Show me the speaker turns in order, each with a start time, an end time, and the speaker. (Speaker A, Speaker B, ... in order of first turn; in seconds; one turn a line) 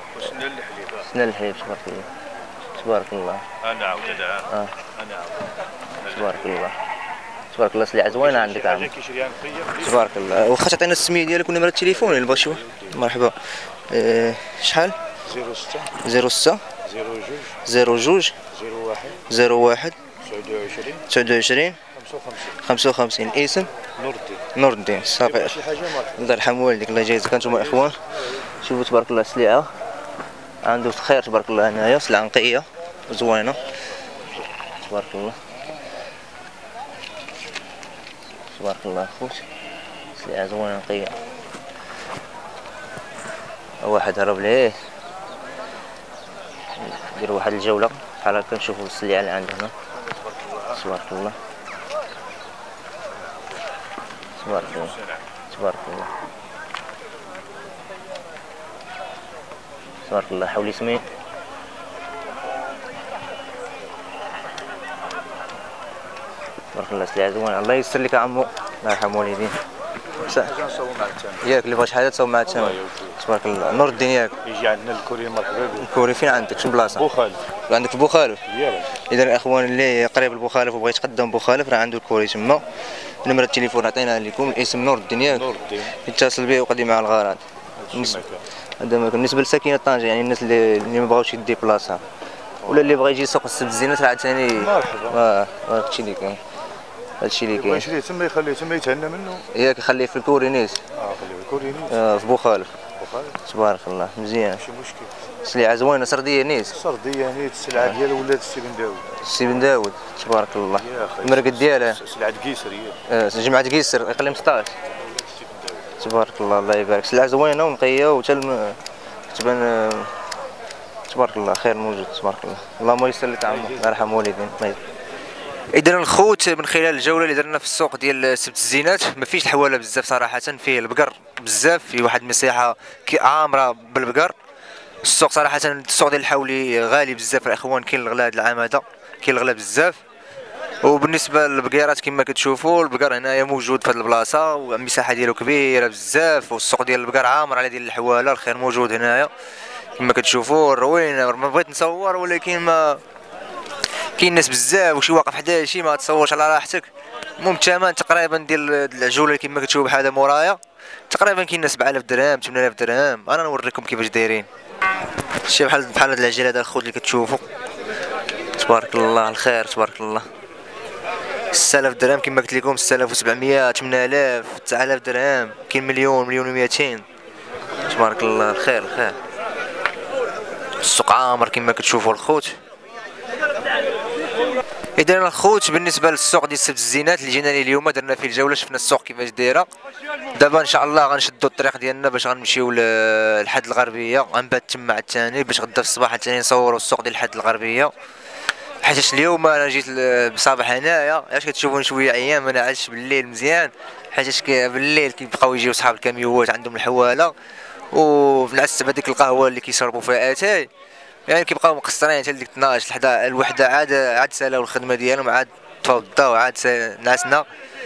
Speaker A: 0.9-2.1
Speaker A: 2.7-3.4
Speaker A: 4.4-4.7
Speaker A: 6.0-6.7
Speaker A: 7.5-8.9
Speaker B: 8.6-9.7
Speaker A: 9.8-15.0
Speaker B: 15.2-15.9
Speaker A: 16.0-16.6
Speaker B: 16.8-17.5
Speaker A: 17.6-18.4
Speaker B: 18.5-19.2
Speaker A: 19.3-19.9
Speaker B: 20.2-21.0
Speaker A: 21.1-21.8
Speaker B: 21.9-22.5
Speaker A: 22.6-23.7
Speaker B: 24.0-24.4
Speaker A: 24.5-29.7
Speaker B: 25.4-26.1
Speaker A: 30.6-33.6
Speaker A: 34.8-35.4
Speaker A: 38.5-39.5
Speaker A: 40.1-41.2
Speaker A: 43.8-44.8
Speaker A: 46.8-49.7
Speaker A: 50.6-51.4
Speaker A: 54.4-55.0
Speaker A: 55.5-56.1
Speaker A: 60.0-61.0
Speaker A: 66.7-69.6
Speaker A: 70.2-70.5
Speaker B: 70.3-71.5
Speaker A: 71.4-74.4
Speaker B: 74.4-75.8
Speaker A: 75.8-77.1
Speaker B: 77.0-77.4
Speaker A: 77.6-78.4
Speaker B: 78.5-78.9
Speaker A: 79.1-82.6
Speaker A: 83.2-88.2
Speaker B: 85.4-85.9
Speaker B: 87.8-88.4
Speaker A: 88.8-92.0
Speaker A: 92.6-96.4
Speaker B: 94.6-95.2
Speaker A: 97.2-97.9
Speaker B: 97.6-99.4
Speaker A: 99.5-100.8
Speaker B: 101.0-102.0
Speaker A: 101.8-102.7
Speaker B: 103.0-103.4
Speaker A: 103.4-104.6
Speaker B: 104.6-105.1
Speaker A: 105.4-106.8
Speaker B: 106.7-109.0
Speaker A: 109.1-112.0
Speaker B: 110.9-113.0
Speaker A: 113.1-114.7
Speaker A: 116.0-120.1
Speaker A: 121.1-124.8
Speaker A: 125.7-134.3
Speaker A: 135.0-140.0
Speaker A: 140.8-149.3
Speaker A: 149.9-153.0
Speaker A: 154.2-156.9
Speaker A: 157.4-160.6
Speaker A: 161.1-164.5
Speaker A: 165.4-167.4
Speaker A: 168.6-170.2
Speaker A: 171.5-177.0
Speaker A: 177.8-179.2
Speaker A: 180.8-182.6
Speaker A: 185.0-189.7
Speaker A: 190.3-197.9
Speaker A: 198.8-207.3
Speaker A: 207.9-210.7
Speaker A: 211.3-217.4